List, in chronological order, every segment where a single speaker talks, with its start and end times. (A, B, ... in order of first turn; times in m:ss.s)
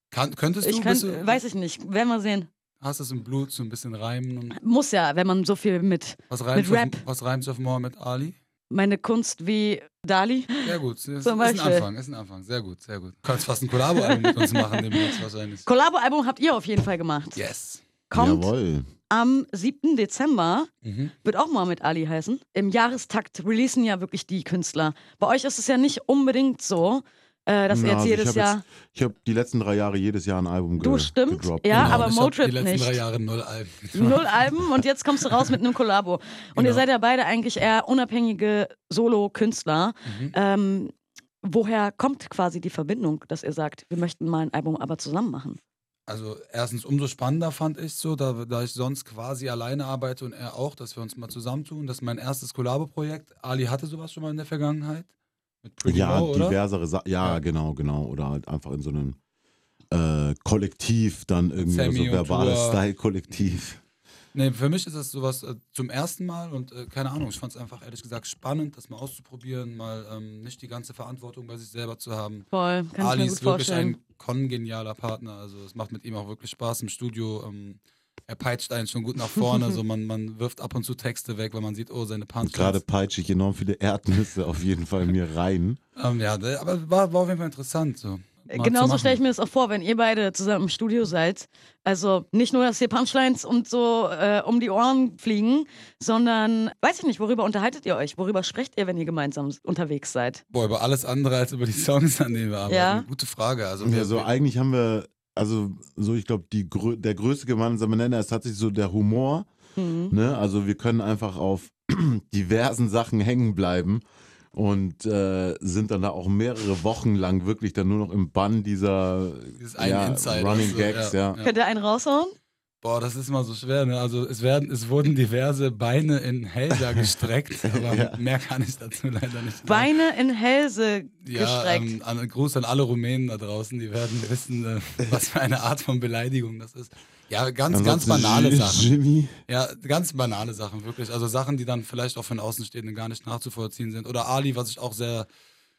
0:00.1-0:01.4 A
0:00.6-0:02.5 B
0:02.8-0:04.6 A
0:04.5-0:07.0 B
0:06.3-0:08.4 A
0:08.7-0:11.9 B
0:10.6-0:15.7 A
0:13.9-0:17.4 B
0:17.4-0:17.8 A
0:18.1-0:18.5 B
0:18.1-0:18.9 C
0:19.1-0:20.7 B
0:20.8-0:21.1 A
0:21.2-0:28.6 B
0:27.7-0:32.1 C
0:30.8-0:33.0 B
0:31.7-0:35.5 A
0:33.9-0:45.6 B
0:36.5-0:36.8 A
0:40.0-0:40.3 A
0:46.1-0:55.1 A
0:55.6-0:56.6 A
0:55.8-0:59.2 C
0:59.9-1:03.8 C
1:01.6-1:02.8 A
1:04.3-1:22.8 A
1:12.5-1:14.0 B
1:22.4-1:25.8 C
1:26.0-1:29.2 A
1:28.5-1:40.4 B
1:40.5-1:44.3 A
1:42.7-1:43.1 B
1:43.8-1:49.5 C
1:49.8-1:50.1 B
1:50.1-2:01.4 C
1:59.6-2:01.5 A
2:01.4-2:02.3 B
2:02.8-2:09.9 A
2:07.6-2:08.2 C
2:09.6-2:12.0 B
2:11.2-2:18.9 A
2:17.7-2:19.3 C
2:19.5-2:25.3 A